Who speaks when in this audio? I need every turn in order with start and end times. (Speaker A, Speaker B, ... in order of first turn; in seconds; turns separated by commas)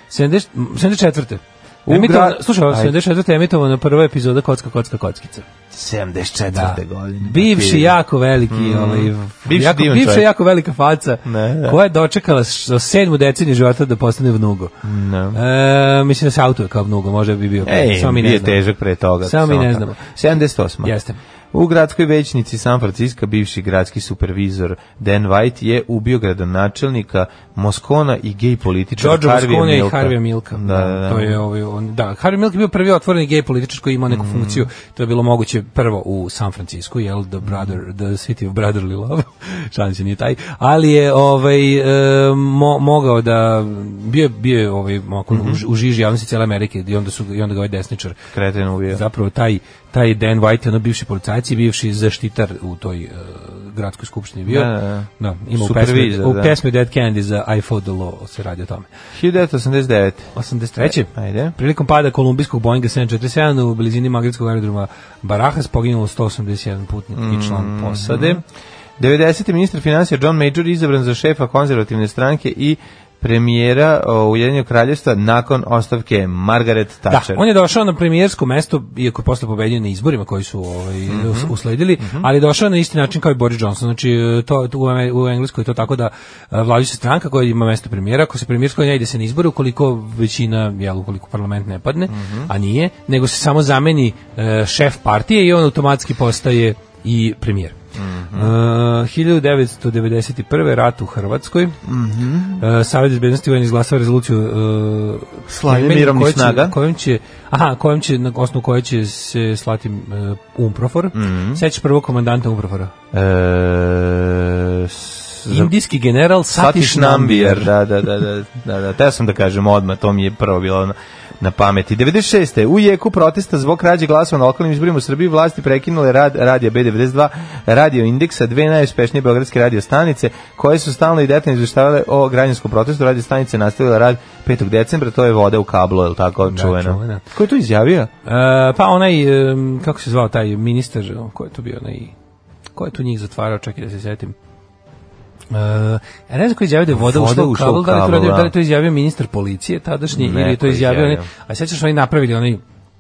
Speaker A: 0.1-5.5, Speaker B: 1.9-3.0, Speaker B: 5.7-8.0, Speaker A: 6.5-14.8, Speaker B: 8.5-10.3, Speaker B: 11.3-11.8, Speaker B: 14.8-15.4, Speaker A: 15.3-18.6, Speaker B: 17.6-20.9, Speaker A: 19.2-20.1, Speaker A: 20.8-21.2, Speaker B: 21.5-31.4, Speaker A: 29.0-48.2, Speaker B: 34.1-34.7, Speaker B: 37.5-37.7, Speaker B: 45.3-45.6, Speaker B: 48.3-49.0, Speaker A: 48.9-58.9, Speaker B: 54.5-56.6, Speaker B: 59.1-61.5, Speaker A: 60.4-68.4, Speaker B: 67.2-68.4, Speaker B: 69.0-77.4, Speaker A: 77.1-97.8, Speaker B: 81.1-82.3, Speaker B: 92.1-92.5, Speaker B: 98.0-98.5, Speaker A: 98.3-101.8, Speaker B: 101.8-102.7, Speaker A: 102.6-112.9, Speaker B: 105.5-106.8, Speaker B: 111.1-111.6, Speaker B: 113.1-115.7, Speaker A: 115.5-117.8, Speaker B: 116.5-138.1, Speaker A: 136.5-137.2, Speaker A: 138.2-142.1, Speaker A: 142.7-144.3, Speaker A: 145.5-152.6, Speaker B: 146.9-148.5, Speaker B: 150.1-151.3